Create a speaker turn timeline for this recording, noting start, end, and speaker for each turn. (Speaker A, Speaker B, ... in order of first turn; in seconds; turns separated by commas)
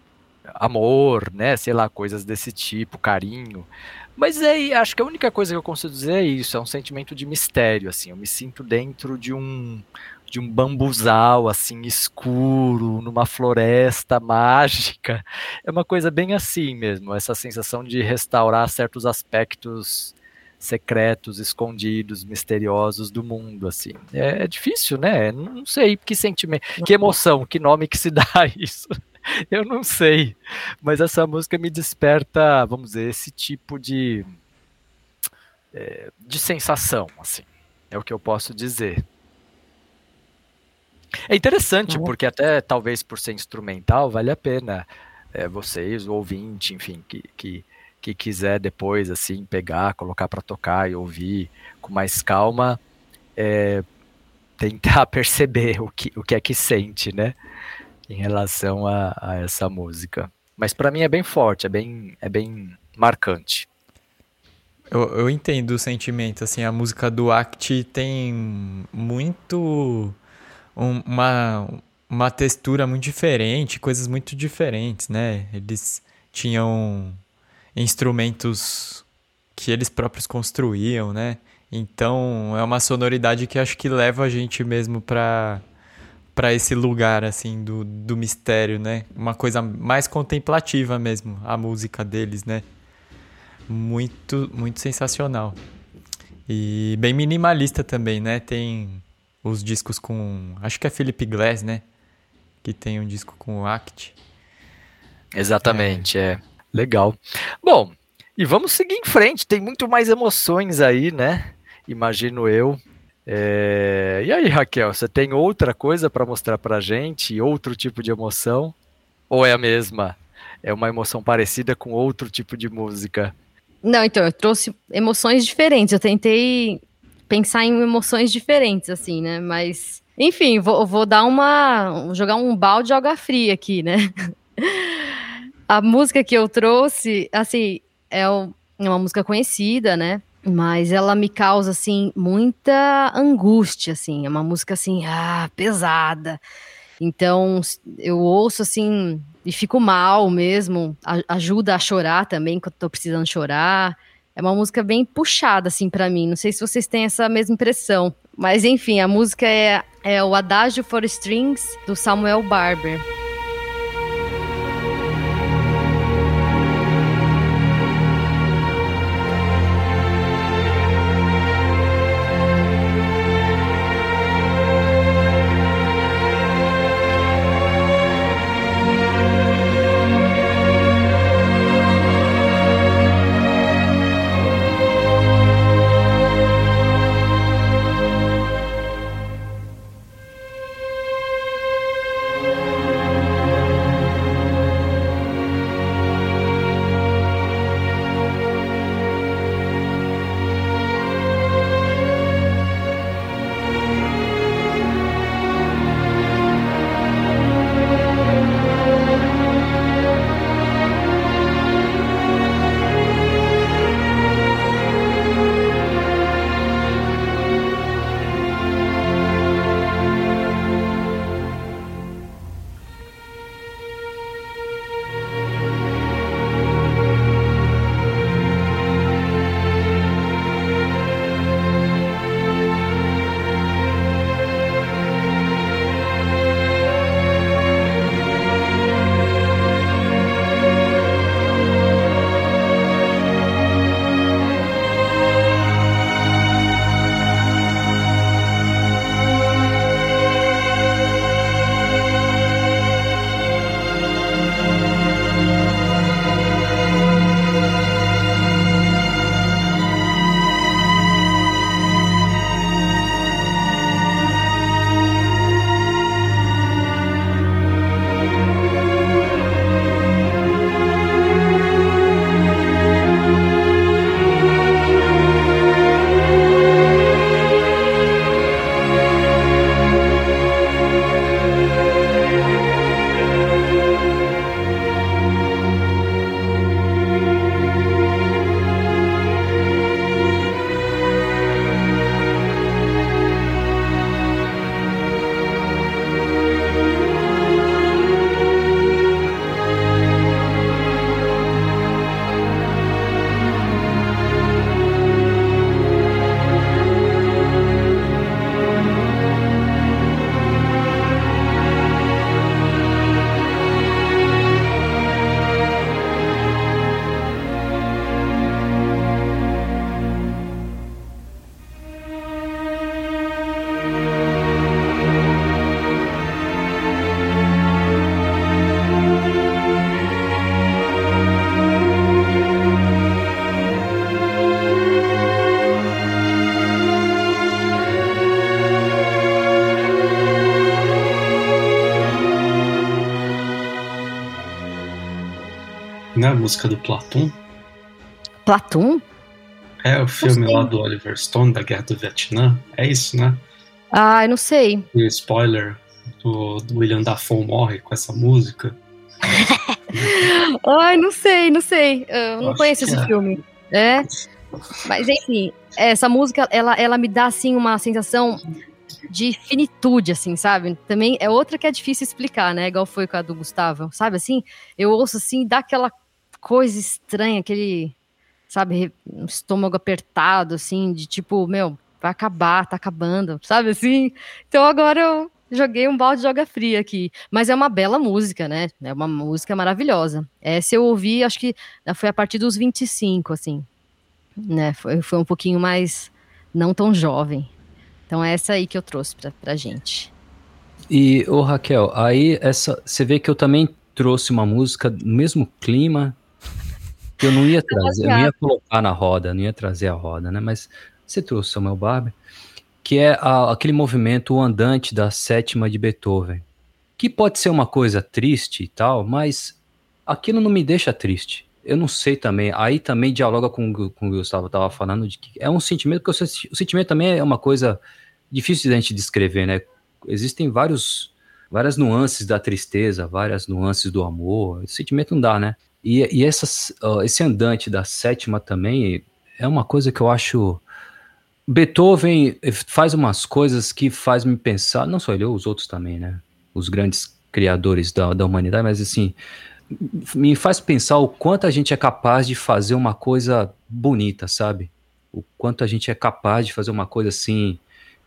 Speaker A: 0.6-28.9, Speaker A: 29.5-34.3, Speaker A: 35.7-39.0, Speaker A: 41.3-52.8, Speaker B: 41.9-42.1, Speaker A: 53.4-53.9, Speaker A: 54.6-57.4, Speaker A: 58.1-63.7, Speaker C: 64.9-70.2, Speaker C: 70.8-77.2, Speaker C: 77.8-85.6, Speaker C: 86.3-92.7, Speaker C: 93.7-95.6, Speaker C: 96.5-101.8, Speaker C: 102.6-104.2, Speaker A: 105.3-118.7, Speaker C: 105.7-106.1, Speaker A: 119.3-123.3, Speaker B: 123.8-134.9, Speaker B: 135.7-146.4, Speaker B: 147.0-163.0, Speaker D: 346.1-347.4, Speaker B: 348.5-349.0, Speaker D: 349.8-353.4, Speaker B: 350.2-350.7, Speaker B: 353.9-354.9, Speaker D: 354.9-358.8, Speaker B: 359.5-364.1, Speaker D: 362.4-363.1, Speaker B: 364.9-368.4, Speaker B: 369.1-377.9, Speaker B: 378.5-393.7, Speaker B: 394.4-397.5, Speaker B: 398.1-400.1, Speaker E: 400.9-406.2, Speaker E: 407.2-412.1, Speaker B: 407.7-408.3, Speaker E: 412.8-416.4, Speaker E: 417.0-440.6, Speaker E: 441.5-449.2, Speaker E: 449.7-457.6